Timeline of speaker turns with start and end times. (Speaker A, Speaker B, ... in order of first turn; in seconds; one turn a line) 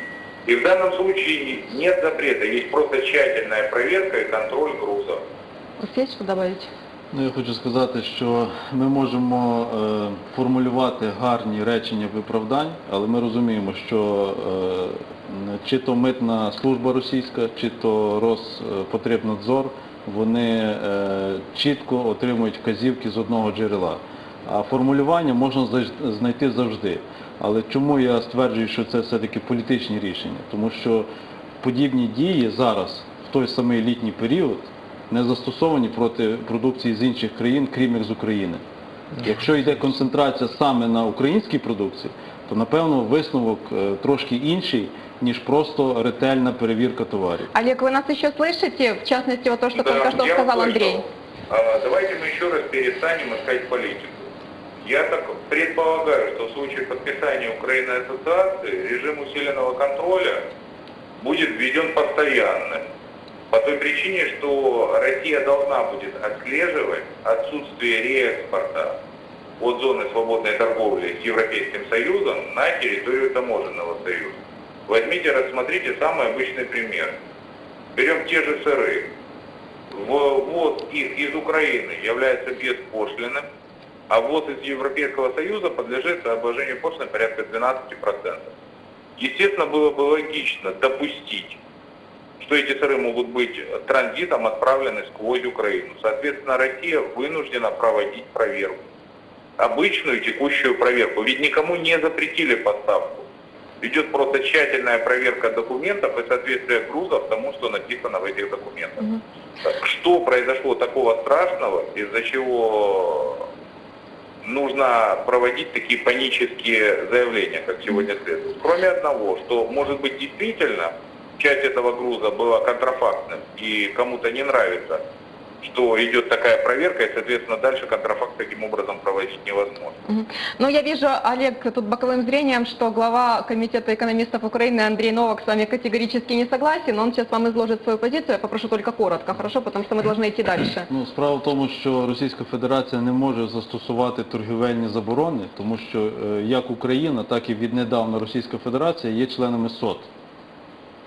Speaker A: 0.5-5.2
Speaker B: 5.8-6.7
Speaker C: 7.1-31.1
Speaker C: 31.6-38.6
Speaker C: 39.2-47.5
Speaker B: 47.5-51.0
Speaker A: 49.7-54.3
Speaker A: 54.8-60.4
Speaker A: 61.2-62.8
Speaker A: 63.5-69.0
Speaker A: 69.6-77.1
Speaker A: 77.9-79.1
Speaker A: 79.9-83.4
Speaker A: 84.1-88.5
Speaker A: 89.2-91.6
Speaker A: 92.4-98.8
Speaker A: 99.6-103.2
Speaker A: 103.8-113.5
Speaker A: 114.4-125.0
Speaker A: 125.6-130.0
Speaker B: 130.1-140.9
Speaker C: 140.9-150.1